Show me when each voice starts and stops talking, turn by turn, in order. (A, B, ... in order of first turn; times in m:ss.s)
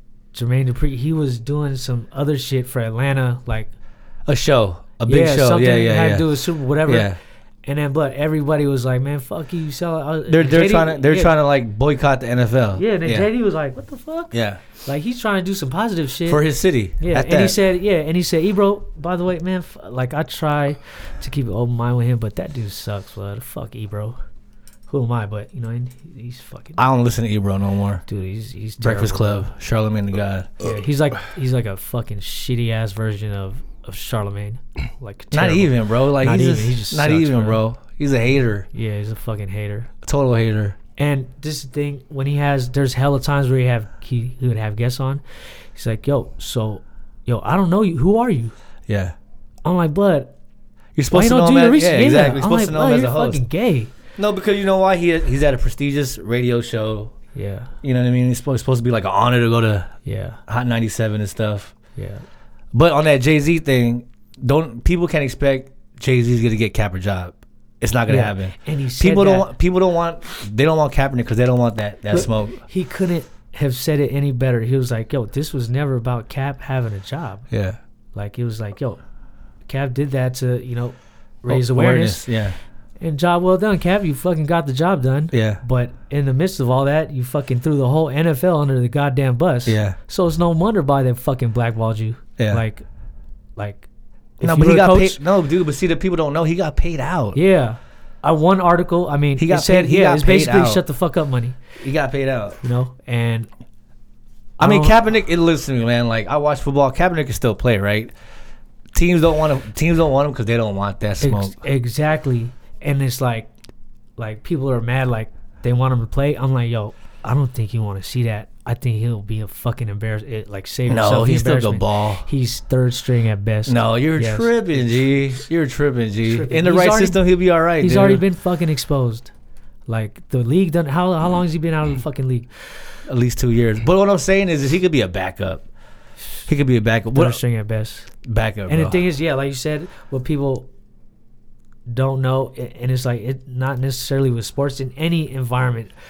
0:00.3-0:03.7 A
0:04.2-0:07.2 B
0:05.0-0:11.3 A
0:10.3-0:13.3 B
0:12.8-0:16.4 A
0:14.3-0:14.6 B
0:16.3-0:17.6 B
0:17.0-0:24.2 A
0:24.9-0:26.8 A
0:26.8-0:28.0 B
0:28.1-0:29.5 A
0:28.8-0:30.5 B
0:30.6-0:37.6 A
0:35.3-0:38.7 B
0:38.7-0:39.9 A
0:40.0-0:40.8 B
0:41.0-0:45.2 A
0:45.7-0:48.5 A
0:48.9-0:49.1 B
0:49.6-0:50.3 A
0:50.9-0:53.4 B
0:51.1-0:53.9 A
0:54.2-0:57.1 B
0:57.3-0:57.7 A
0:57.8-0:59.9 B
1:00.0-1:00.4 A
1:00.5-1:01.7 B
1:02.0-1:02.2 A
1:02.7-1:12.6 B
1:08.1-1:09.5 A
1:12.1-1:17.4 A
1:17.5-1:17.8 B
1:18.1-1:19.0 A
1:19.6-1:22.3 A
1:21.5-1:22.6 B
1:23.0-1:32.8 A
1:25.3-1:25.6 B
1:29.6-1:30.0 B
1:32.4-1:32.6 B
1:33.6-1:33.9 A
1:34.4-1:35.2 A
1:34.4-1:37.4 B
1:37.3-1:41.6 A
1:39.4-1:40.8 B
1:41.8-1:42.6 B
1:42.6-1:43.5 A
1:44.6-1:45.0 A
1:44.6-1:48.1 B
1:48.9-1:51.5 B
1:51.2-1:53.5 A
1:54.2-2:04.6 A
2:00.9-2:02.2 B
2:03.6-2:08.2 B
2:06.3-2:07.2 A
2:07.8-2:09.3 A
2:09.9-2:12.5 A
2:13.1-2:15.6 B
2:16.5-2:17.4 B
2:17.1-2:18.1 A
2:18.2-2:19.0 B
2:18.7-2:20.7 A
2:21.9-2:25.9 A